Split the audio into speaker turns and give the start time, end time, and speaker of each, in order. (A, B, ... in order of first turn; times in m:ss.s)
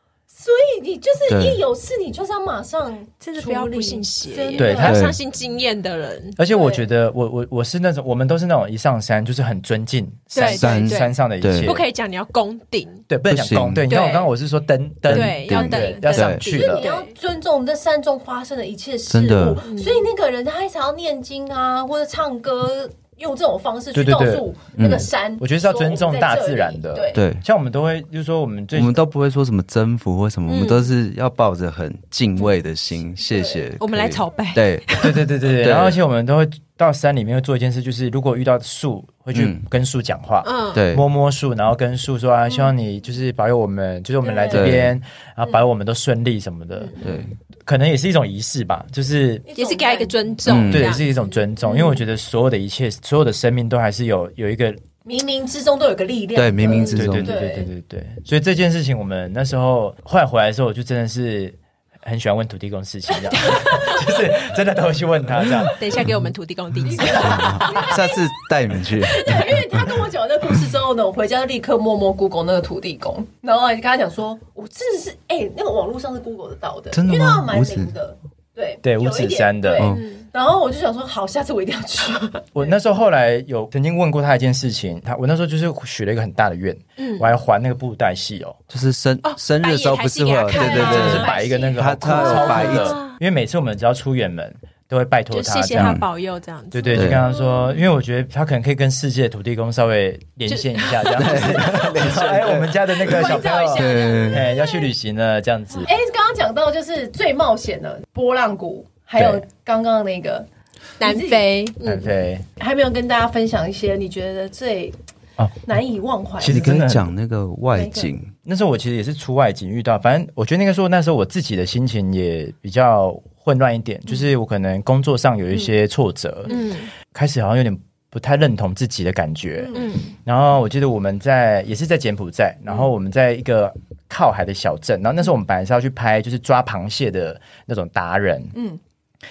0:00.3-0:04.9 A
0:01.3-0:01.6 B
0:03.2-0:06.4 C
0:04.6-0:05.2 D
0:04.8-0:05.2 B
0:06.4-0:11.8 D
0:06.5-0:06.8 A
0:10.3-0:13.0 C
0:10.4-0:11.7 B
0:13.1-0:16.9 D
0:13.3-0:13.9 B
0:13.9-0:14.3 C
0:15.0-0:16.4 B
0:15.1-0:17.1 C
0:16.5-0:27.2 A
0:19.1-0:19.6 B
0:19.6-0:20.0 C
0:23.9-0:24.4 D
0:24.8-0:25.1 B
0:25.4-0:29.1 D
0:27.1-0:27.4 B
0:28.7-0:36.0 B
0:30.5-0:30.9 C
0:33.3-0:33.6 A
0:33.8-0:35.2 C
0:35.0-0:47.0 D
0:39.3-0:39.6 B
0:40.4-0:40.8 C
0:40.8-0:41.0 B
0:44.2-0:44.8 A
0:44.5-0:45.0 B
0:47.0-0:47.3 B
0:47.6-0:49.5 D
0:49.5-0:50.3 A
0:49.6-0:51.1 C
0:50.5-0:50.9 B
0:50.6-0:54.8 D
0:51.6-0:52.0 A
0:55.0-0:57.7 A
0:56.4-0:57.4 B
0:56.9-1:06.0 D
1:03.3-1:04.0 A
1:03.4-1:03.9 C
1:05.8-1:08.0 C
1:06.9-1:08.3 A
1:07.0-1:10.0 B
1:09.1-1:22.7 A
1:09.1-1:09.4 C
1:16.9-1:17.9 B
1:18.8-1:19.9 D
1:19.9-1:20.3 C
1:22.6-1:28.6 D
1:27.0-1:27.3 C
1:28.7-1:33.0 B
1:29.2-1:33.2 C
1:30.5-1:31.8 A
1:30.7-1:36.0 D
1:35.3-1:37.5 C
1:35.7-1:36.0 B
1:36.7-1:45.9 D
1:36.9-1:37.2 B
1:40.5-1:41.9 C
1:41.2-1:44.5 B
1:43.0-1:44.5 C
1:44.4-1:44.9 A
1:45.8-1:50.5 A
1:49.2-1:49.4 D
1:51.0-1:51.8 C
1:51.0-1:51.5 A
1:51.8-1:52.5 D
1:52.6-1:55.0 A
1:55.6-1:56.6 A
1:56.4-1:57.1 D
1:56.4-1:58.3 B
1:57.8-1:58.1 A
1:58.4-2:06.5 D
2:06.5-2:06.9 C
2:07.0-2:18.6 D
2:09.6-2:09.9 A
2:09.7-2:10.1 C
2:18.5-2:18.8 A